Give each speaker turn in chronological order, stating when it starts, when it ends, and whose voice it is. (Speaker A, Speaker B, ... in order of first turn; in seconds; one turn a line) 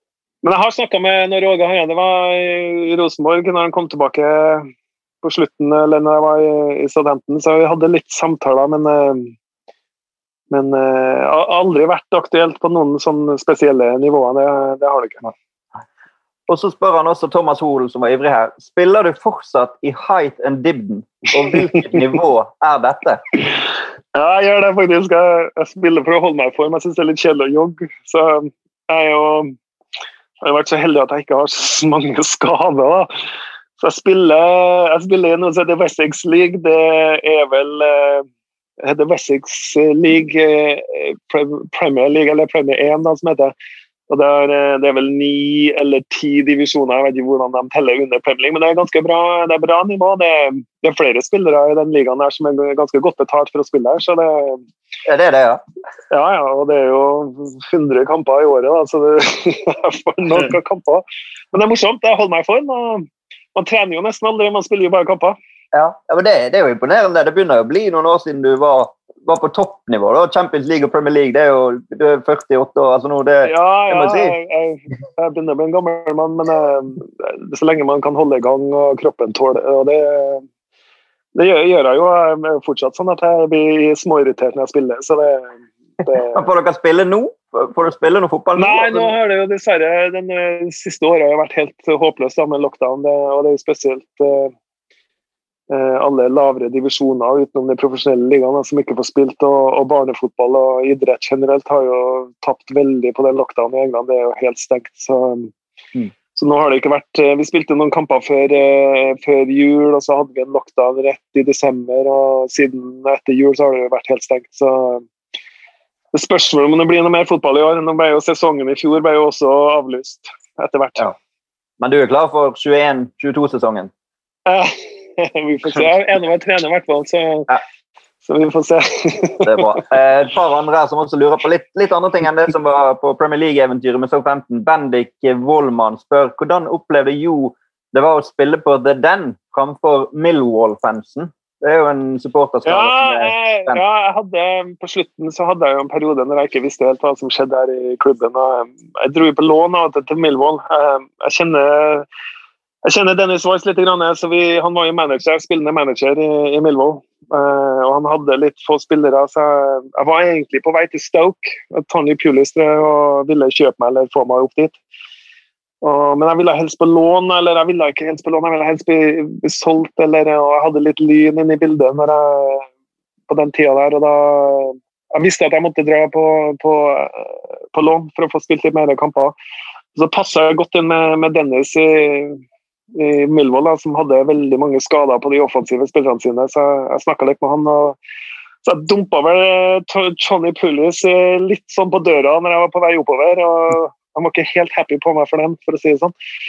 Speaker A: 0.4-4.7
Speaker A: 5.2-9.3
Speaker A: 10.5-15.3
Speaker B: 16.5-23.2
Speaker A: 24.1-29.5
Speaker A: 30.4-33.1
Speaker A: 33.8-38.2
Speaker A: 38.8-43.5
Speaker A: 44.1-54.6
Speaker B: 55.0-55.6
Speaker A: 56.1-65.4
Speaker B: 65.7-74.3
Speaker A: 73.4-80.4
Speaker A: 81.3-86.4
Speaker B: 86.2-89.1
Speaker A: 88.6-94.5
Speaker A: 95.7-105.5
Speaker A: 106.3-115.0
Speaker A: 116.1-121.1
Speaker B: 121.8-123.9
Speaker A: 124.5-127.5
Speaker A: 128.2-129.6
Speaker B: 129.4-143.8
Speaker A: 142.6-152.1
Speaker A: 152.8-164.8
Speaker A: 165.8-172.7
Speaker A: 173.3-179.3
Speaker A: 179.9-182.4
Speaker A: 182.9-187.9
Speaker A: 188.6-196.1